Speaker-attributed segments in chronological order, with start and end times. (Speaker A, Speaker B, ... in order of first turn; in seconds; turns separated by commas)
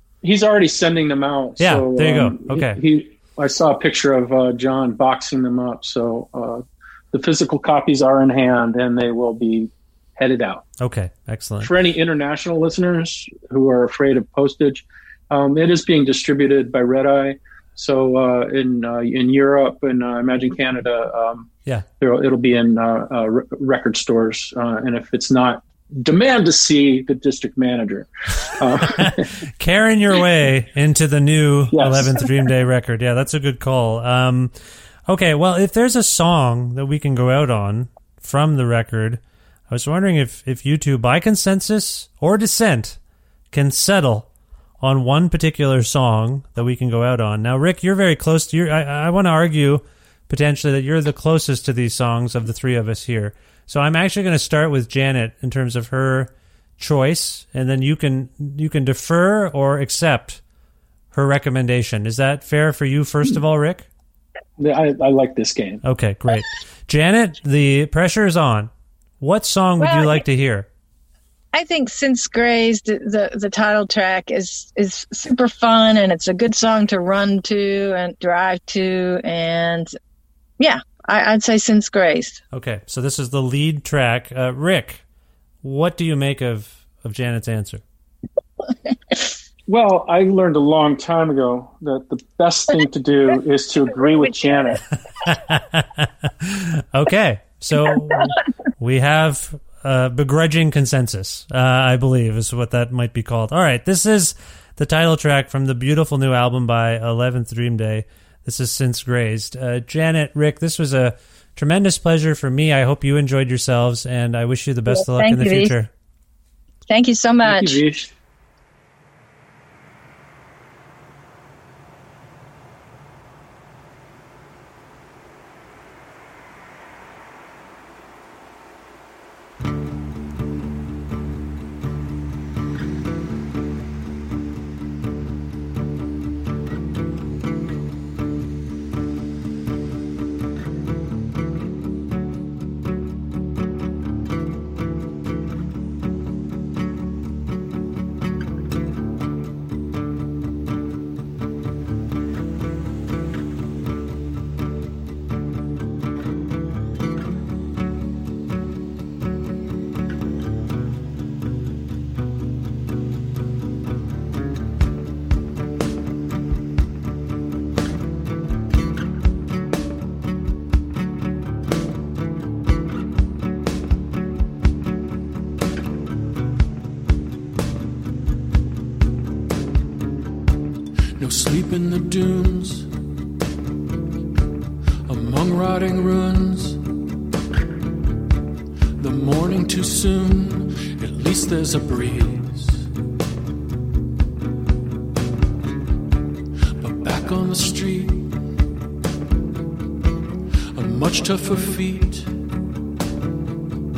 Speaker A: 0.2-10.7, Speaker B: 1.6-2.8, Speaker B: 10.8-11.7, Speaker A: 11.6-21.5, Speaker A: 22.0-29.3, Speaker B: 29.0-34.5, Speaker A: 31.7-32.3, Speaker B: 35.1-43.0, Speaker B: 43.5-44.3, Speaker B: 44.8-60.4, Speaker B: 61.1-63.8, Speaker A: 64.6-65.8, Speaker B: 65.8-70.7, Speaker C: 69.8-70.2, Speaker C: 71.5-79.9, Speaker C: 80.6-82.4, Speaker B: 82.5-85.0, Speaker B: 85.6-87.8, Speaker A: 89.7-94.8, Speaker B: 95.2-115.9, Speaker C: 114.9-115.7, Speaker C: 116.9-117.8, Speaker A: 117.4-118.1, Speaker D: 181.2-182.9, Speaker D: 185.1-186.8, Speaker D: 189.0-192.8, Speaker D: 196.8-198.3, Speaker D: 200.7-202.3